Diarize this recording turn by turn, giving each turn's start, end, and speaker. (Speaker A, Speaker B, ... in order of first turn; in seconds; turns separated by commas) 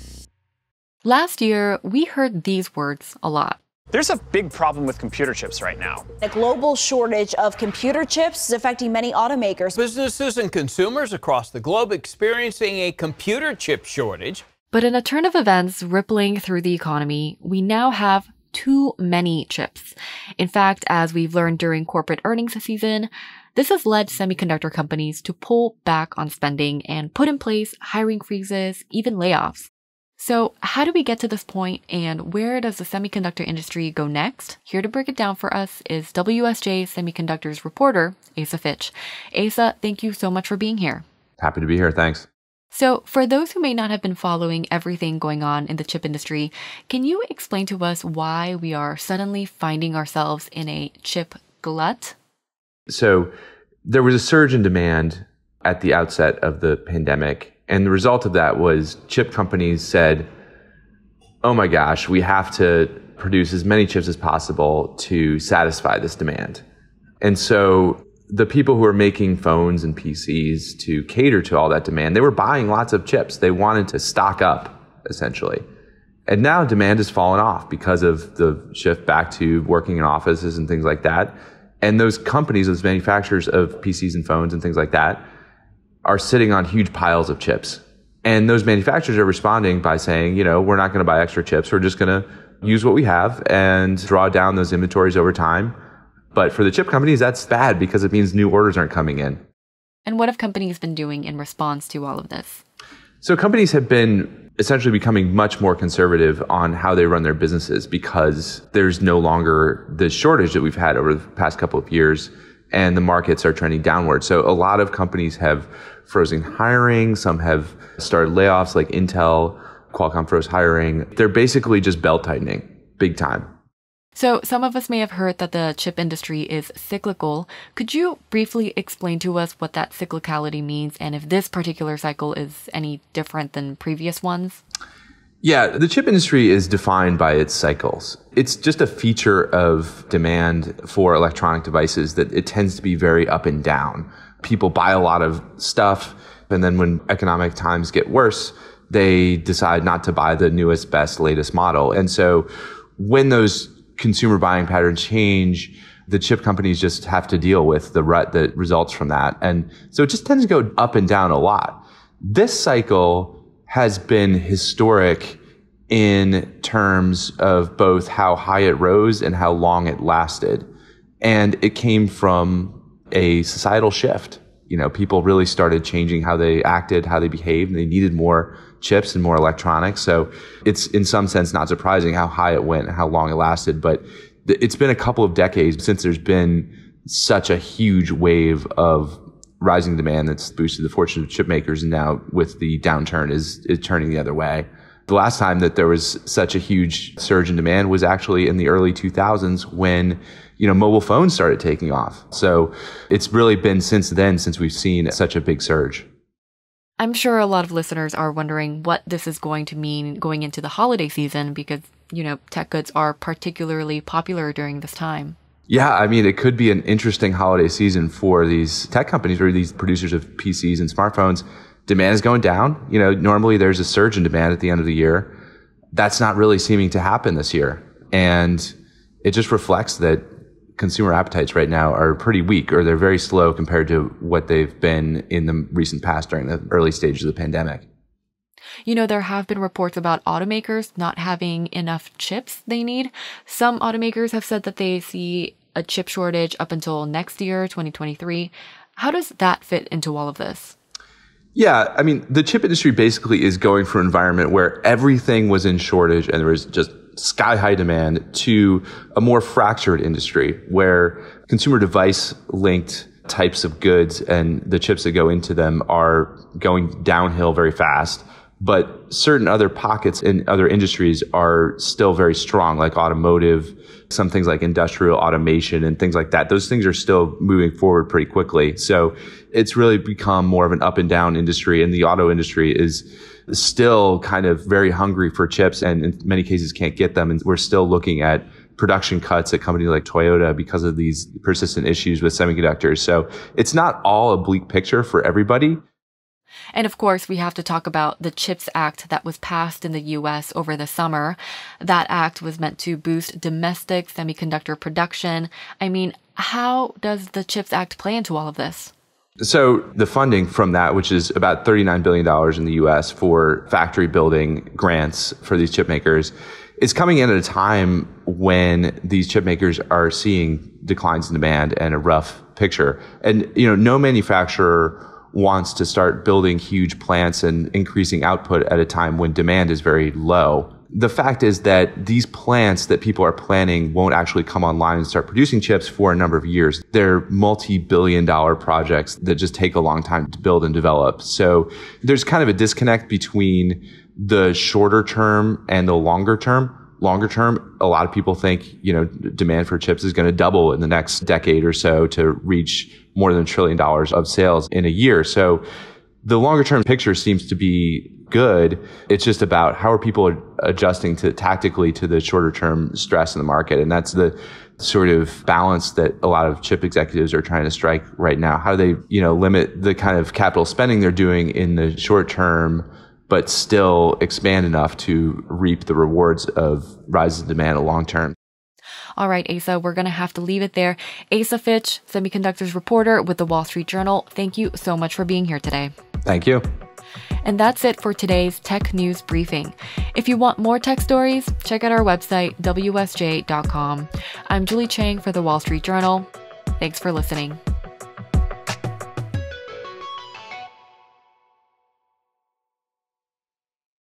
Speaker A: 1.0-3.6, Speaker B: 3.9-6.1, Speaker C: 6.2-9.8, Speaker D: 9.8-14.4, Speaker A: 14.7-41.0, Speaker E: 41.4-42.3, Speaker A: 42.7-52.1, Speaker E: 52.9-53.3, Speaker E: 53.9-60.3, Speaker E: 61.4-66.6, Speaker E: 67.2-75.6, Speaker E: 76.3-85.2, Speaker E: 86.0-95.8, Speaker E: 96.3-99.4, Speaker A: 100.1-102.6, Speaker E: 103.2-123.5, Speaker A: 124.2-134.6, Speaker E: 135.4-165.4, Speaker E: 165.9-170.7, Speaker E: 171.2-206.1, Speaker A: 207.0-215.4, Speaker E: 215.7-225.3, Speaker E: 225.9-230.2, Speaker E: 230.8-237.9, Speaker A: 238.8-250.8, Speaker E: 251.6-295.8, Speaker A: 296.7-308.9, Speaker E: 309.4-355.6, Speaker E: 356.2-378.3, Speaker A: 379.2-385.9, Speaker E: 386.3-386.6, Speaker A: 387.4-397.6